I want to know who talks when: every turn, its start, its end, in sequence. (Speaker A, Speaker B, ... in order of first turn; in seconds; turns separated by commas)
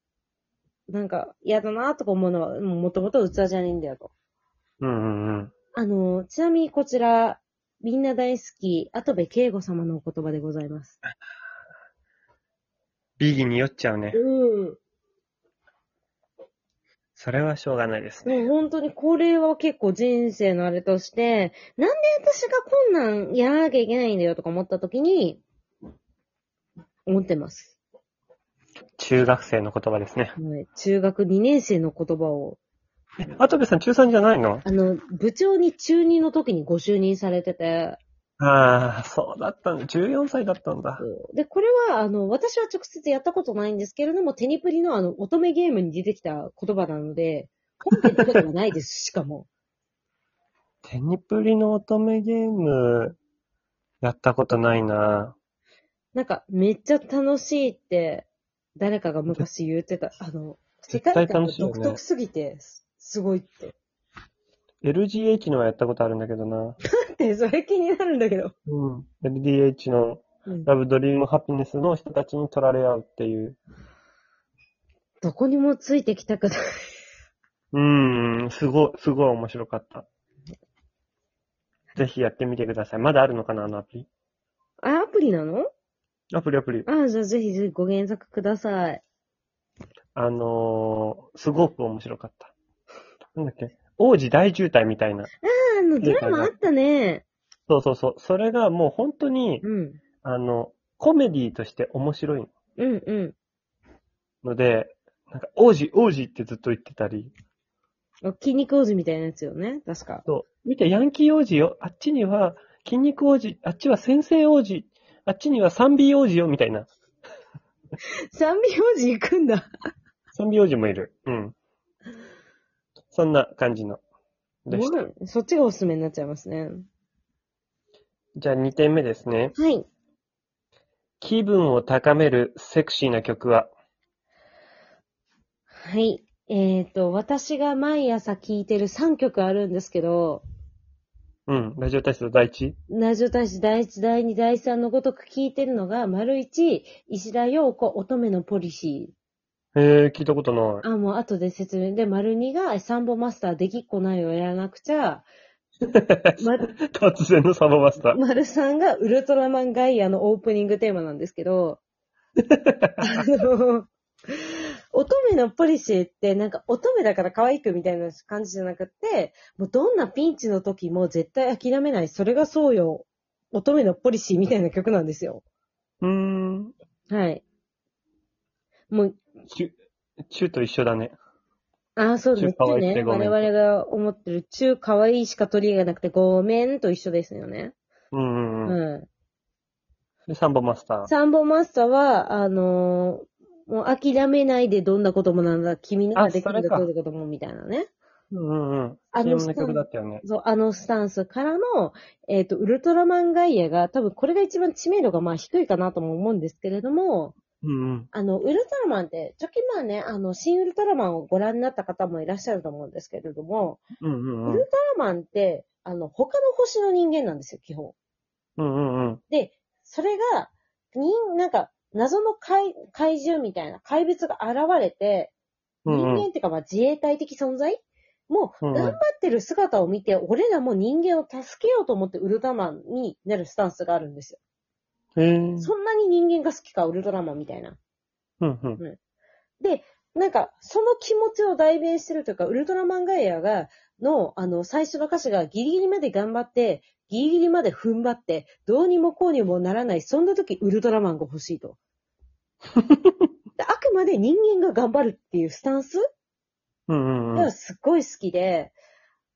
Speaker A: 0.9-4.1, Speaker B: 4.8-5.5, Speaker A: 5.8-11.0, Speaker B: 13.2-14.2, Speaker A: 14.1-14.8, Speaker B: 17.2-18.3, Speaker A: 18.2-25.4, Speaker A: 27.1-27.8, Speaker B: 29.0-30.4, Speaker A: 30.4-32.6, Speaker B: 33.2-34.6, Speaker A: 34.6-38.0, Speaker B: 38.4-41.1, Speaker A: 41.0-49.5, Speaker B: 50.8-53.2, Speaker B: 54.0-55.4, Speaker A: 56.1-63.8, Speaker B: 60.9-62.0, Speaker B: 64.8-66.8, Speaker A: 66.8-68.5, Speaker B: 68.7-73.6, Speaker A: 75.2-77.0, Speaker B: 77.7-80.1, Speaker B: 82.0-84.1, Speaker A: 84.8-85.7, Speaker B: 86.3-86.9, Speaker A: 86.9-89.0, Speaker B: 90.2-92.5, Speaker B: 93.3-95.3, Speaker A: 95.4-97.2, Speaker B: 96.0-96.5, Speaker B: 97.7-99.7, Speaker A: 99.6-100.0, Speaker B: 100.2-102.5, Speaker A: 102.8-103.4, Speaker B: 104.4-107.3, Speaker A: 108.2-110.3, Speaker B: 110.3-116.9, Speaker A: 118.3-119.7, Speaker B: 120.3-121.5, Speaker B: 123.1-124.0, Speaker B: 124.7-125.0, Speaker A: 124.7-126.9, Speaker B: 128.4-129.6, Speaker A: 129.6-129.9, Speaker B: 131.2-133.7, Speaker A: 135.7-140.4, Speaker B: 141.5-142.8, Speaker A: 142.9-149.1, Speaker B: 149.8-150.8, Speaker A: 150.8-155.3, Speaker B: 155.9-158.2, Speaker A: 156.4-156.7, Speaker A: 158.0-161.8, Speaker B: 162.6-163.0, Speaker A: 163.0-175.4, Speaker B: 176.0-176.7, Speaker A: 177.1-177.4, Speaker A: 178.9-179.2, Speaker B: 179.5-179.7, Speaker B: 180.3-181.2, Speaker A: 182.0-187.7, Speaker B: 182.4-183.5, Speaker B: 188.1-188.8, Speaker A: 188.7-189.1, Speaker B: 190.3-191.1, Speaker A: 191.1-197.9, Speaker B: 196.2-196.9, Speaker B: 198.3-200.2, Speaker A: 199.1-207.4, Speaker B: 207.6-208.1, Speaker A: 208.1-213.8, Speaker B: 214.0-214.7, Speaker A: 214.5-217.9, Speaker B: 218.6-219.2, Speaker A: 219.3-225.3, Speaker A: 225.8-234.4, Speaker B: 225.9-226.3, Speaker B: 228.6-229.0, Speaker B: 235.2-235.7, Speaker A: 235.6-237.8, Speaker B: 238.4-238.8, Speaker A: 239.6-251.8, Speaker B: 252.8-253.1, Speaker A: 253.6-256.0, Speaker B: 256.9-257.5, Speaker A: 257.4-258.8